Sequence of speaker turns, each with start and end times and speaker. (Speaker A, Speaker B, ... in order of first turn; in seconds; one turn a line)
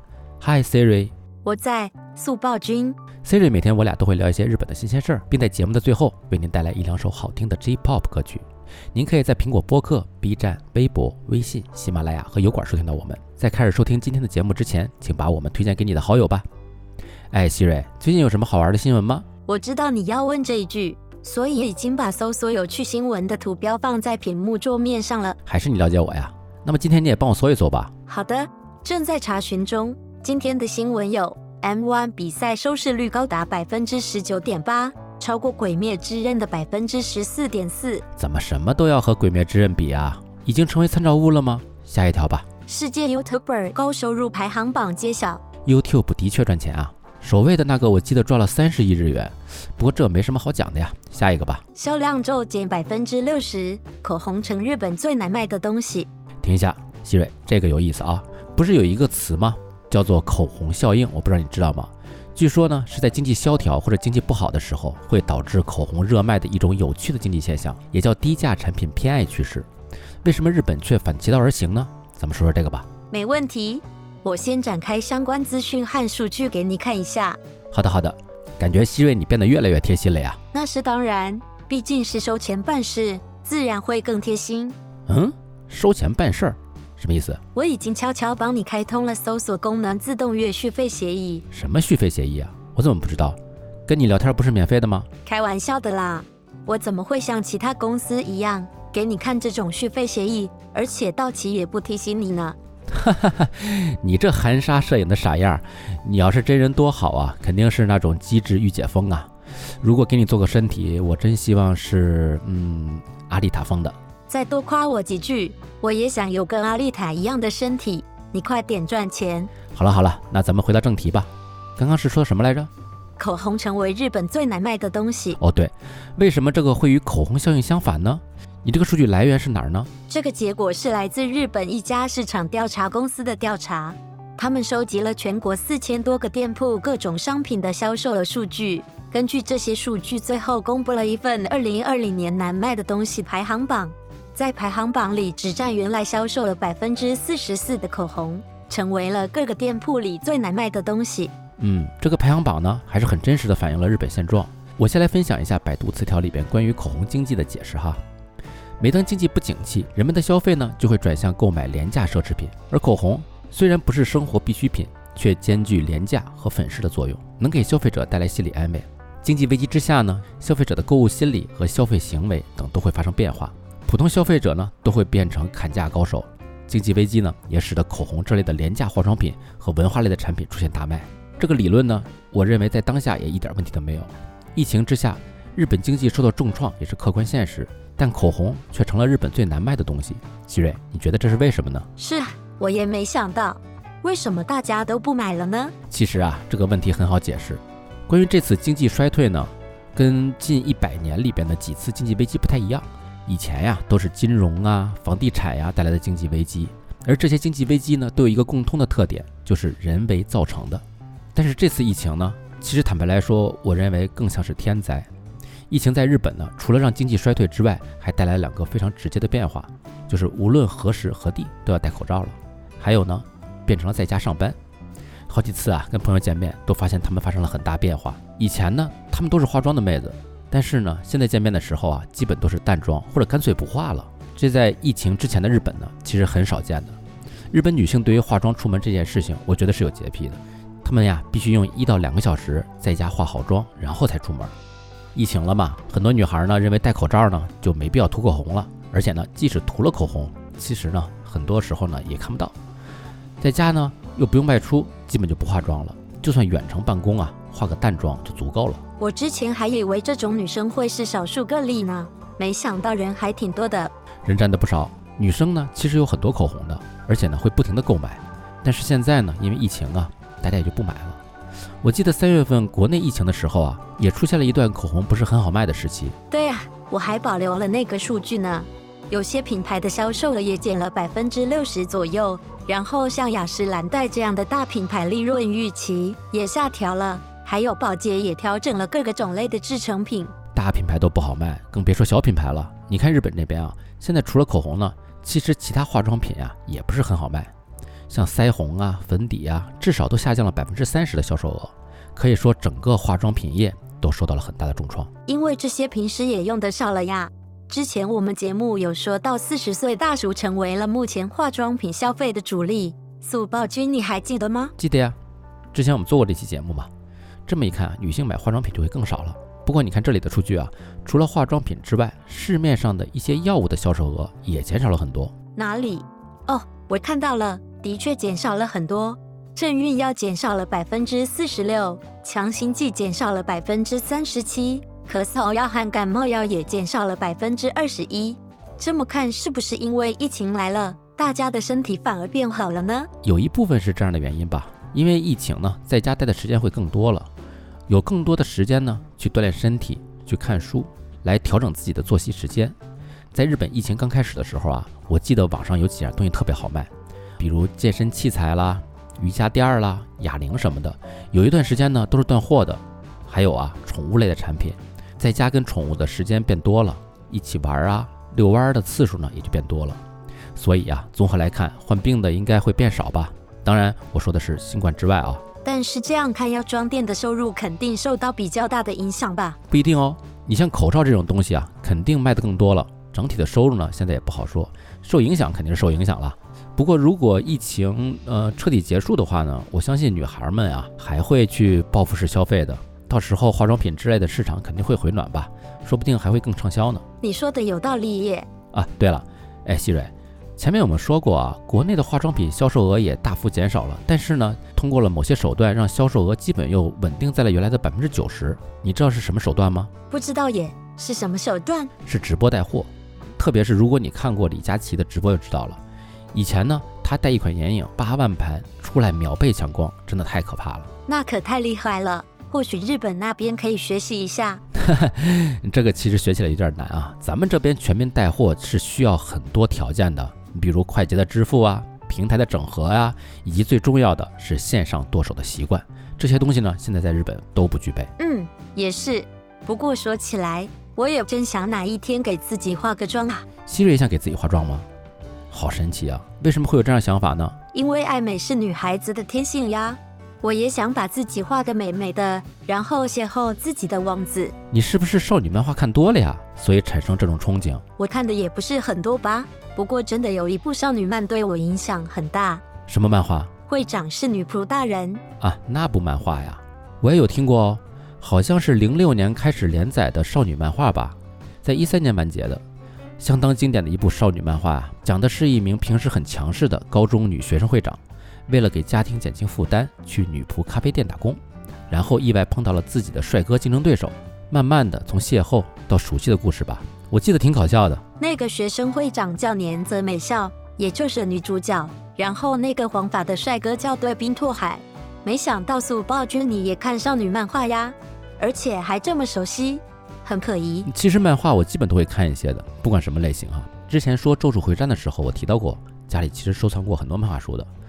Speaker A: 0.4-1.1
Speaker B: 1.4-3.0
Speaker A: 3.2-16.4
Speaker A: 17.3-19.2
Speaker B: 19.5-25.4
Speaker A: 25.4-27.9
Speaker B: 28.1-38.0
Speaker A: 38.1-42.5
Speaker B: 42.7-45.4
Speaker A: 45.6-51.6
Speaker B: 51.7-56.1
Speaker A: 56.4-69.7
Speaker A: 70.2-72.9
Speaker B: 73.1-77.4
Speaker A: 77.7-80.4
Speaker B: 80.5-84.8
Speaker A: 85.1-87.4
Speaker B: 87.5-91.5
Speaker A: 91.5-95.1
Speaker B: 95.2-102.6
Speaker A: 102.9-109.3
Speaker A: 109.8-114.0
Speaker B: 114.3-119.5
Speaker A: 119.7-122.7
Speaker B: 123.2-125.4
Speaker A: 125.4-129.9
Speaker B: 130.1-151.3
Speaker A: 151.6-158.0
Speaker A: 158.8-191.9
Speaker B: 192.0-195.7
Speaker A: 195.9-210.8
Speaker A: 211.3-215.1
Speaker A: 215.7-224.6
Speaker A: 225.3-237.0
Speaker A: 237.5-244.5
Speaker A: 245.1-252.5
Speaker A: 253.4-258.8
Speaker B: 259.0-263.9
Speaker A: 264.2-271.2
Speaker A: 271.8-276.1
Speaker B: 276.3-290.3
Speaker A: 290.5-297.5
Speaker A: 298.1-305.1
Speaker B: 305.3-314.7
Speaker A: 314.8-315.2
Speaker A: 315.7-316.9
Speaker A: 317.4-325.3
Speaker B: 325.6-343.1
Speaker A: 343.2-347.3
Speaker A: 347.9-352.8
Speaker A: 353.3-370.0
Speaker A: 370.5-375.4
Speaker B: 375.6-379.6
Speaker A: 379.7-397.0
Speaker B: 397.2-398.5
Speaker A: 398.7-409.9
Speaker B: 410.1-411.9
Speaker A: 412.0-415.8
Speaker A: 416.3-420.9
Speaker B: 421.1-424.6
Speaker A: 424.7-438.1
Speaker B: 438.2-443.4
Speaker A: 443.6-444.9
Speaker A: 445.5-447.6
Speaker B: 447.7-454.5
Speaker A: 454.7-457.8
Speaker B: 458.0-462.6
Speaker A: 462.9-463.5
Speaker B: 463.7-465.2
Speaker A: 465.4-472.6
Speaker A: 473.2-488.0
Speaker B: 488.2-500.9
Speaker A: 500.9-507.7